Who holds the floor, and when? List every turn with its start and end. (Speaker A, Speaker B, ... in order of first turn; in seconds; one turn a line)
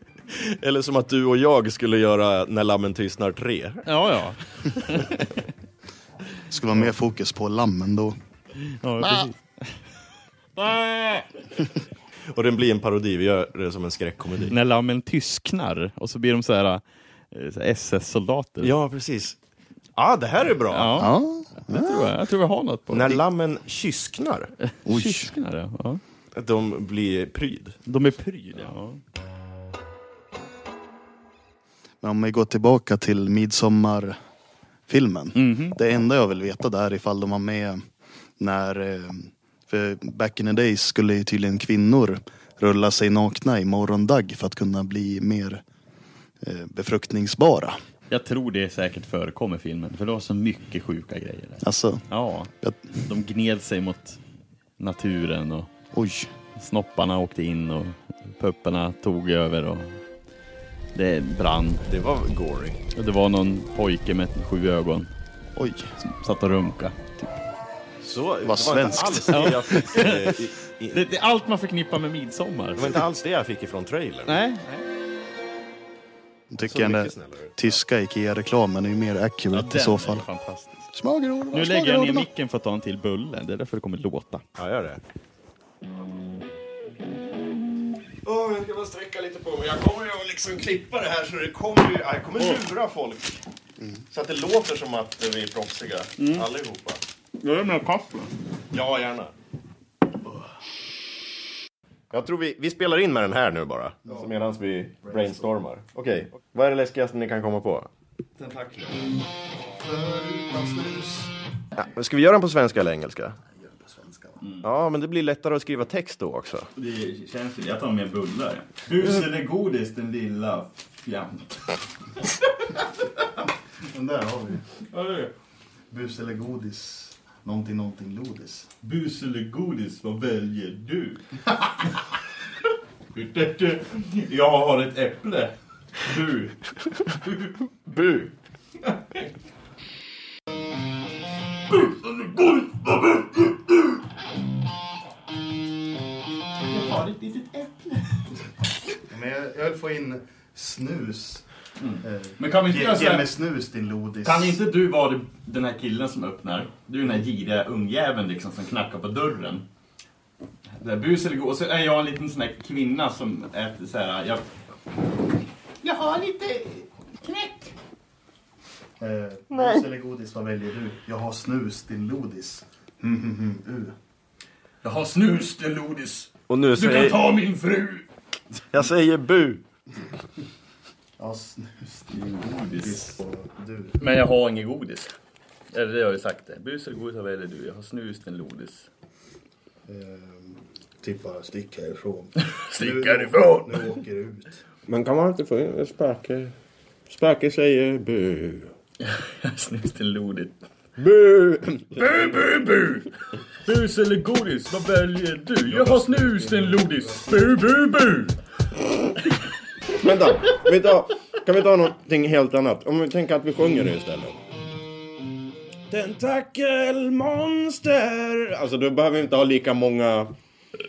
Speaker A: 0.3-3.9
Speaker B: 3.9-5.5
Speaker C: 6.5-8.2
Speaker B: 8.7-9.8
Speaker C: 9.0-9.3
Speaker B: 10.6-11.6
Speaker A: 12.3-14.4
Speaker B: 14.4-18.7
Speaker A: 18.6-19.4
Speaker A: 20.0-20.8
Speaker B: 20.7-23.2
Speaker C: 20.9-22.1
Speaker A: 22.9-24.5
Speaker B: 24.7-26.0
Speaker C: 24.9-25.3
Speaker A: 26.3-27.9
Speaker B: 27.9-29.0
Speaker C: 32.0-34.1
Speaker C: 34.9-37.8
Speaker B: 35.4-35.8
Speaker C: 38.4-45.6
Speaker C: 46.4-47.8
Speaker B: 48.1-54.2
Speaker C: 51.6-52.1
Speaker C: 52.6-53.1
Speaker B: 54.8-55.7
Speaker C: 55.9-56.3
Speaker B: 56.6-60.0
Speaker B: 60.9-61.9
Speaker A: 61.9-62.8
Speaker B: 62.9-65.1
Speaker C: 65.6-66.0
Speaker B: 66.0-67.2
Speaker A: 68.0-71.1
Speaker C: 68.4-70.1
Speaker B: 69.0-72.9
Speaker A: 72.8-74.4
Speaker B: 74.2-74.9
Speaker C: 76.5-80.3
Speaker A: 76.6-77.8
Speaker B: 79.5-80.9
Speaker C: 80.9-82.3
Speaker B: 81.5-84.4
Speaker A: 84.6-85.0
Speaker A: 88.2-93.4
Speaker A: 94.1-97.0
Speaker B: 96.2-96.5
Speaker B: 97.4-98.3
Speaker A: 98.7-99.3
Speaker A: 102.1-107.9
Speaker C: 104.0-104.5
Speaker C: 105.0-105.5
Speaker B: 108.4-109.0
Speaker C: 109.8-111.3
Speaker A: 111.8-113.4
Speaker C: 113.6-114.4
Speaker A: 114.6-116.7
Speaker B: 116.8-122.3
Speaker C: 123.9-124.6
Speaker B: 124.9-125.3
Speaker C: 125.9-128.7
Speaker B: 128.8-132.0
Speaker B: 133.1-136.6
Speaker A: 136.8-137.2
Speaker B: 137.2-137.6
Speaker A: 137.9-138.3
Speaker B: 141.7-143.9
Speaker B: 146.7-148.2
Speaker C: 149.1-151.4
Speaker B: 151.8-153.3
Speaker C: 152.0-154.6
Speaker B: 154.2-159.7
Speaker B: 160.8-164.5
Speaker B: 165.8-167.7
Speaker C: 165.8-166.7
Speaker C: 169.0-173.9
Speaker A: 169.5-169.8
Speaker B: 174.8-178.1
Speaker A: 176.5-177.3
Speaker A: 178.7-179.6
Speaker C: 181.2-184.1
Speaker B: 182.1-183.2
Speaker B: 184.0-185.1
Speaker B: 185.7-188.9
Speaker C: 189.9-194.6
Speaker B: 192.4-194.0
Speaker A: 194.9-196.5
Speaker A: 197.1-198.7
Speaker B: 199.0-200.6
Speaker A: 201.0-202.5
Speaker B: 202.0-203.1
Speaker B: 203.6-208.3
Speaker A: 205.7-206.5
Speaker C: 206.4-207.2
Speaker A: 209.9-214.4
Speaker A: 215.9-220.3